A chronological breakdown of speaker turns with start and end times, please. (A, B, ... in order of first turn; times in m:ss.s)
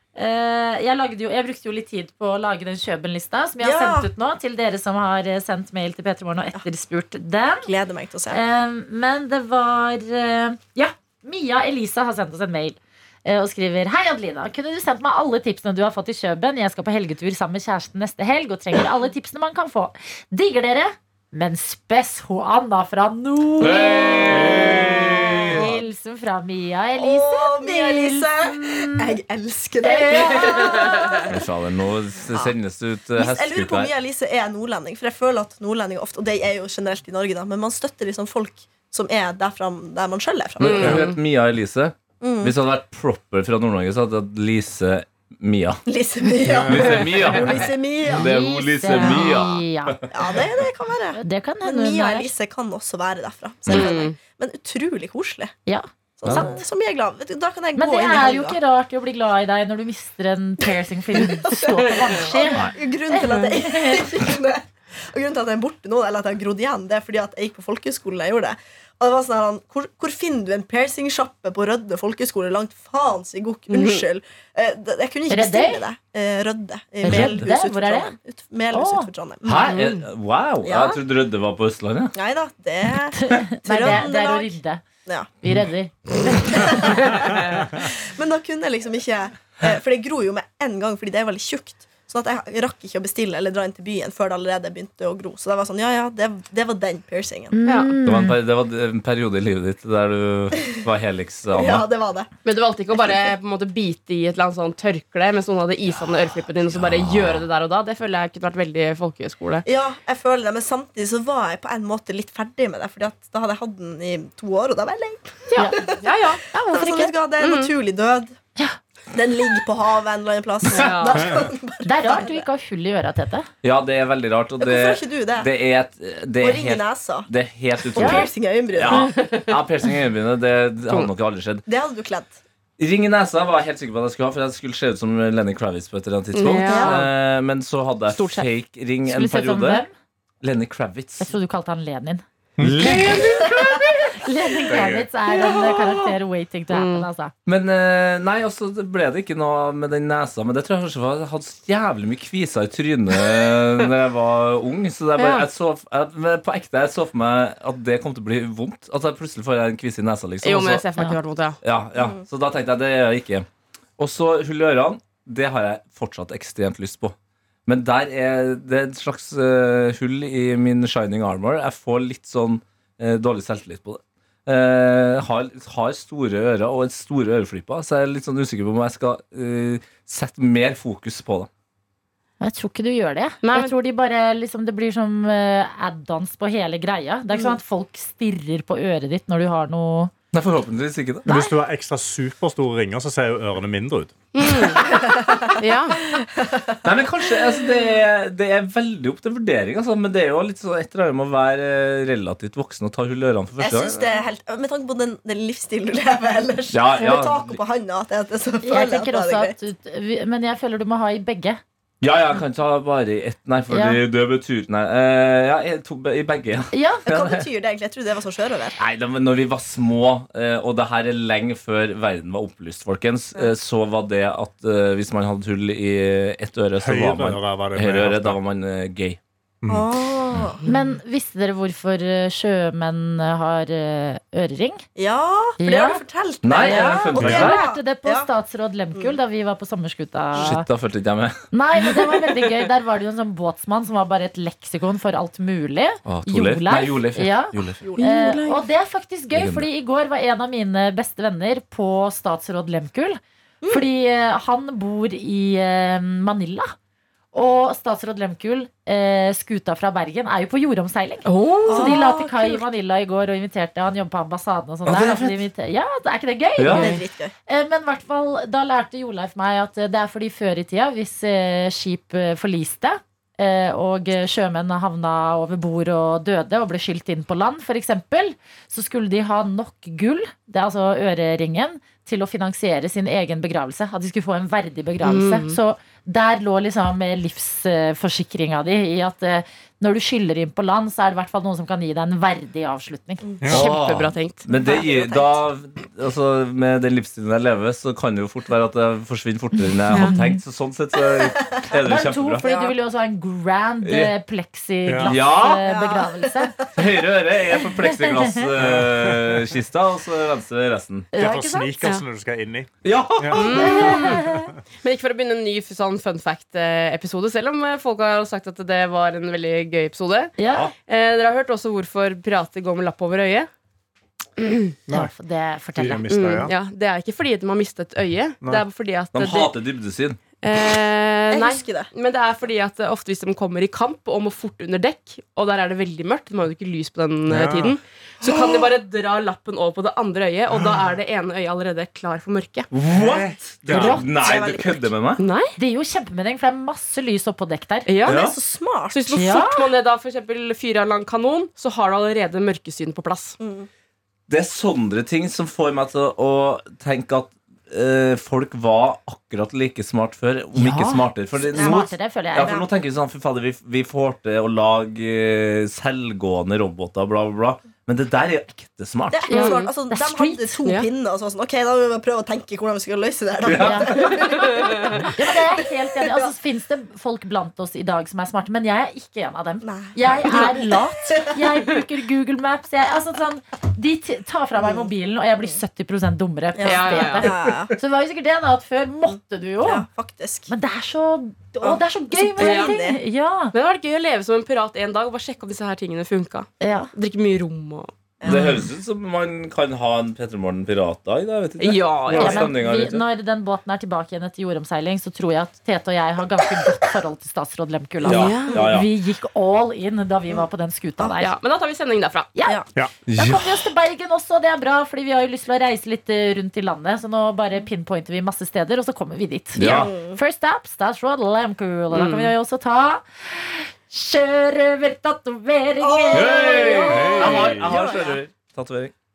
0:00.2-0:07.7 A
0:03.6-0:04.1 B
0:07.6-0:08.4 B
0:08.3-0:29.2 A
0:23.6-0:25.7 C
0:24.5-0:25.8 B
0:27.0-0:31.2 B
0:29.8-0:31.3 A
0:30.7-0:31.1 D
0:31.3-0:33.9 C
0:33.2-0:41.1 B
0:40.6-0:45.8 C
0:40.6-0:41.2 D
0:42.2-0:42.6 B
0:45.9-0:48.3 B
0:46.5-0:47.0 E
0:46.6-0:50.4 C
0:48.1-0:50.0 A
0:50.1-0:55.6 B
0:51.2-0:52.3 A
0:53.7-0:54.2 D
0:55.7-0:56.6 A
0:56.2-0:58.6 B
0:56.3-0:56.5 C
0:57.8-1:04.1 A
1:01.2-1:19.8 B
1:13.7-1:14.0 D
1:15.3-1:15.8 A
1:17.0-1:18.1 A
1:17.1-1:17.5 C
1:18.7-1:19.1 A
1:19.4-1:22.1 C
1:19.6-1:20.0 D
1:20.6-1:21.0 B
1:22.2-1:25.3 B
1:23.1-1:24.8 A
1:25.4-1:27.1 A
1:26.3-1:37.6 B
1:37.5-1:38.4 A
1:37.6-1:38.0 D
1:38.0-1:41.9 C
1:41.5-1:42.3 B
1:42.4-1:49.6 D
1:46.7-1:47.4 C
1:49.7-1:56.0 B
1:55.5-1:55.8 A
1:55.6-1:56.4 D
1:56.5-1:57.1 A
1:56.7-1:58.4 B
1:57.4-1:57.7 D
1:59.1-2:02.4 B
2:00.7-2:01.4 D
2:01.8-2:03.5 A
2:03.6-2:11.6 C
2:04.6-2:05.5 B
2:06.4-2:07.3 B
2:07.9-2:09.1 B
2:08.0-2:08.3 A
2:08.9-2:09.5 D
2:11.7-2:12.4 B
2:12.8-2:19.8 C
2:16.3-2:17.1 D
2:16.7-2:17.0 A
2:18.1-2:18.5 D
2:19.1-2:19.9 A
2:20.4-2:21.3 C
2:21.2-2:22.2 A
2:22.6-2:23.0 E
2:22.6-2:25.0 C
2:22.8-2:23.4 A
2:24.2-2:27.3 A
2:26.7-2:27.1 D
2:27.5-2:40.8 C
2:35.2-2:35.5 D
2:40.4-2:41.6 D
2:41.6-2:43.5 C
2:42.0-2:42.2 B
2:44.0-2:47.1 C
2:47.7-3:01.5 C
3:02.4-3:10.1 A
3:03.4-3:03.7 D
3:10.3-3:11.3 C
3:11.3-3:11.5 A
3:11.3-3:14.6 E
3:14.4-3:14.8 D
3:15.1-3:15.5 B
3:15.6-3:16.0 D
3:16.8-3:24.0 C
3:23.6-3:29.6 B
3:26.7-3:27.6 C
3:28.6-3:31.6 A
3:32.0-3:37.4 C
3:33.7-3:34.0 A
3:36.7-3:37.1 A
3:37.1-3:38.8 B
3:38.8-3:49.2 C
3:46.8-3:48.4 E
3:49.7-3:50.6 B
3:50.7-3:54.8 A
3:55.0-3:58.3 B
3:55.6-3:56.0 A
3:56.4-3:57.6 C
3:56.5-4:00.7 A
3:57.2-3:57.5 E
4:00.4-4:01.4 C
4:01.5-4:16.7 A
4:01.9-4:02.3 D
4:06.0-4:07.8 C
4:07.8-4:08.5 B
4:08.0-4:08.6 D
4:09.3-4:09.7 C
4:17.3-4:53.2 A
4:21.2-4:22.0 D
4:21.7-4:22.6 B
4:24.8-4:25.4 C
4:26.6-4:26.9 C
4:26.7-4:27.3 B
4:45.0-4:45.6 D
4:53.2-4:53.5 B
4:53.4-4:53.7 E
4:53.5-5:02.4 C
4:53.5-4:54.6 D
4:59.8-5:00.4 A
5:01.2-5:01.5 B
5:01.8-5:06.6 A
5:02.4-5:02.8 B
5:03.8-5:04.1 C
5:04.8-5:05.1 E
5:05.0-5:05.6 C
5:05.6-5:06.7 B
5:06.8-5:11.1 C
5:07.6-5:08.4 A
5:08.6-5:09.4 E
5:11.1-5:11.8 A
5:11.2-5:14.4 E
5:12.8-5:13.9 C
5:13.3-5:14.3 D
5:13.6-5:14.5 A
5:14.8-5:23.5 D
5:20.4-5:20.7 A
5:24.4-5:24.7 D
5:24.9-5:26.4 A
5:25.8-5:26.5 E
5:26.1-5:29.6 D
5:29.1-5:30.2 C
5:30.4-5:42.7 D
5:31.3-5:31.9 B
5:37.3-5:37.8 E
5:38.2-5:38.7 B
5:42.7-5:45.2 C
5:42.9-5:44.0 E
5:43.7-5:44.1 A
5:44.1-5:44.9 B
5:45.2-5:45.6 D
5:45.6-5:47.9 A
5:47.9-5:48.3 D
5:48.1-5:48.4 C
5:48.1-5:49.1 B
5:48.9-5:53.4 D
5:49.1-5:49.6 A
5:53.4-5:53.7 B
5:54.3-6:09.3 C
6:00.6-6:02.6 A
6:01.5-6:02.7 B
6:09.1-6:16.3 B
6:09.3-6:09.7 D
6:09.3-6:10.7 A
6:13.4-6:14.0 C
6:13.5-6:29.8 A
6:19.6-6:21.5 B
6:24.6-6:24.9 B
6:26.6-6:27.7 B
6:26.6-6:27.4 D
6:29.6-6:30.5 B
6:30.5-6:33.5 A
6:31.6-6:33.0 B
6:32.4-6:32.9 D
6:33.5-6:37.9 D
6:36.6-6:36.9 A
6:38.2-6:38.6 B
6:38.3-6:43.0 C
6:38.3-6:38.7 A
6:41.6-6:42.6 D
6:42.1-6:51.3 A
6:48.0-6:48.9 C
6:48.1-6:48.7 D
6:51.2-6:52.3 D
6:52.4-7:07.5 A
6:53.1-6:53.5 C
6:59.6-6:59.9 C
6:59.6-7:00.2 B
7:01.9-7:02.3 D
7:05.8-7:08.2 B
7:06.1-7:08.9 C
7:07.1-7:07.7 E